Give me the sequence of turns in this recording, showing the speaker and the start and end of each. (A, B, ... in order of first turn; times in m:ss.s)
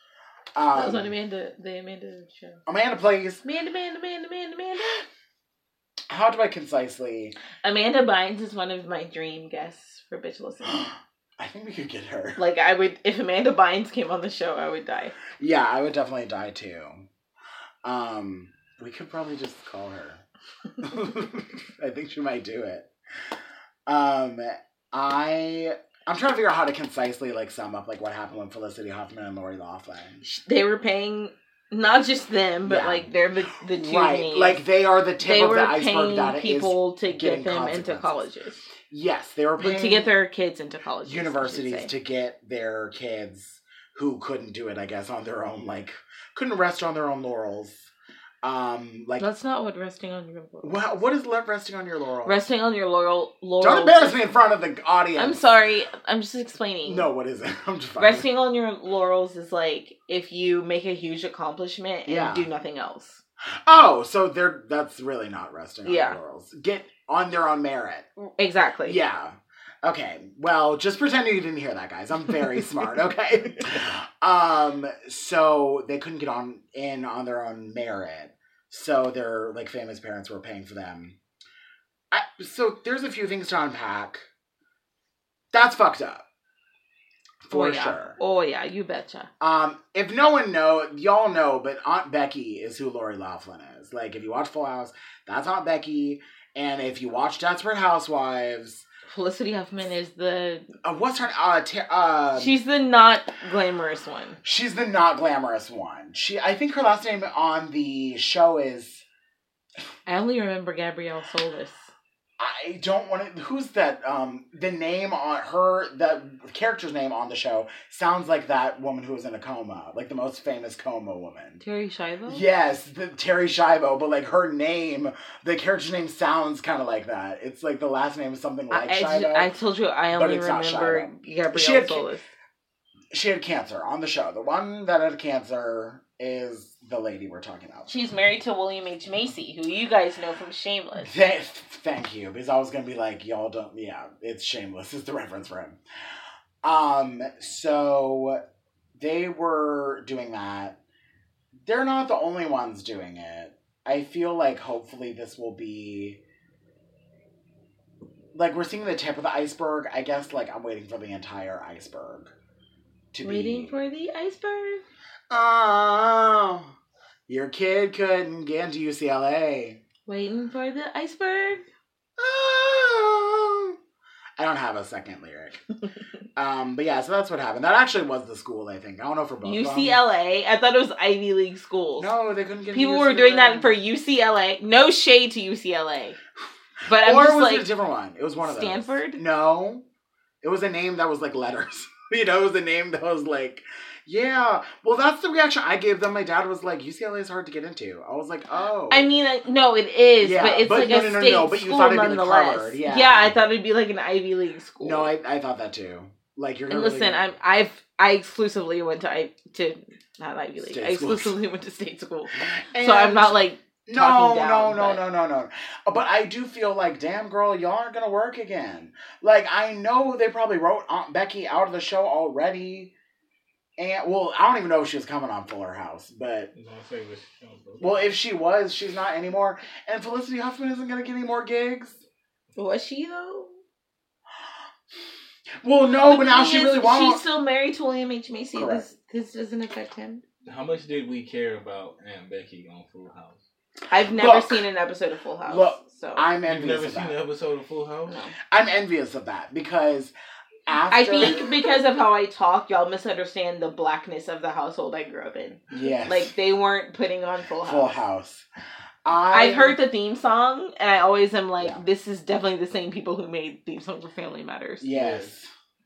0:00.5-0:01.1 A
0:00.7-0:02.6 B
0:02.6-0:03.4 A
0:03.4-0:05.0 B
0:06.1-0:07.3 A
0:07.6-0:10.9 B
0:10.7-0:12.4 A
0:12.4-0:15.2 B
0:15.4-0:17.0 A
0:17.8-0:20.2 A
0:20.8-0:22.9 A
0:23.8-0:30.2 A
0:30.2-0:34.6 B
0:32.6-0:33.1 A
0:33.7-0:38.2 A
0:35.2-0:38.7 B
0:38.9-0:40.1 A
0:39.6-0:41.9 B
0:41.0-0:47.9 A
0:48.4-0:49.2 A
0:49.2-0:50.8 B
0:50.6-0:52.4 A
0:52.2-0:54.3 B
0:53.6-0:55.4 A
0:55.2-0:57.1 B
0:56.8-0:58.3 A
0:58.0-1:03.2 B
1:02.1-1:02.5 A
1:03.6-1:08.1 A
1:05.8-1:06.2 B
1:08.4-1:09.0 B
1:08.8-1:21.2 A
1:22.1-1:24.2 A
1:25.5-1:26.2 A
1:27.4-1:28.2 A
1:27.5-1:29.3 B
1:29.4-1:38.8 A
1:39.1-1:40.7 B
1:40.8-1:42.6 A
1:42.3-1:44.4 B
1:44.4-1:49.0 A
1:50.0-1:51.9 B
1:52.4-2:01.6 A
2:01.6-2:02.4 B
2:02.3-2:09.5 A
2:08.7-2:12.2 B
2:10.1-2:12.1 A
2:13.1-2:17.9 A
2:17.9-2:21.1 B
2:21.0-2:25.8 A
2:26.6-2:28.4 A
2:28.9-2:30.8 A
2:31.6-2:36.2 A
2:38.3-2:42.3 A
2:43.1-2:43.7 A
2:43.2-2:44.8 B
2:45.3-2:46.7 A
2:47.3-2:49.8 A
2:50.0-2:51.6 B
2:52.2-2:53.8 A
2:54.4-2:55.6 A
2:56.4-3:00.0 A
2:59.4-3:02.1 B
3:02.0-3:03.8 A
3:02.7-3:06.2 B
3:06.9-3:07.6 B
3:06.9-3:09.8 A
3:08.4-3:09.2 B
3:10.4-3:19.1 A
3:18.9-3:25.1 B
3:20.2-3:23.4 A
3:24.8-3:27.3 A
3:26.7-3:35.0 B
3:30.6-3:31.4 A
3:32.4-3:42.9 A
3:43.8-3:46.5 A
3:46.5-3:48.0 C
3:47.8-3:52.0 A
3:52.6-3:53.6 B
3:55.6-3:57.2 A
3:56.0-4:00.2 B
3:58.5-3:58.9 A
4:00.4-4:03.4 C
4:03.9-4:06.3 B
4:04.1-4:04.6 A
4:05.4-4:07.2 A
4:06.4-4:08.2 C
4:08.1-4:08.3 B
4:08.5-4:10.1 A
4:10.7-4:11.6 A
4:10.9-4:18.0 B
4:15.7-4:16.3 A
4:17.6-4:18.4 A
4:19.0-4:19.8 A
4:19.3-4:24.9 B
4:24.8-4:25.5 A
4:24.9-4:25.3 C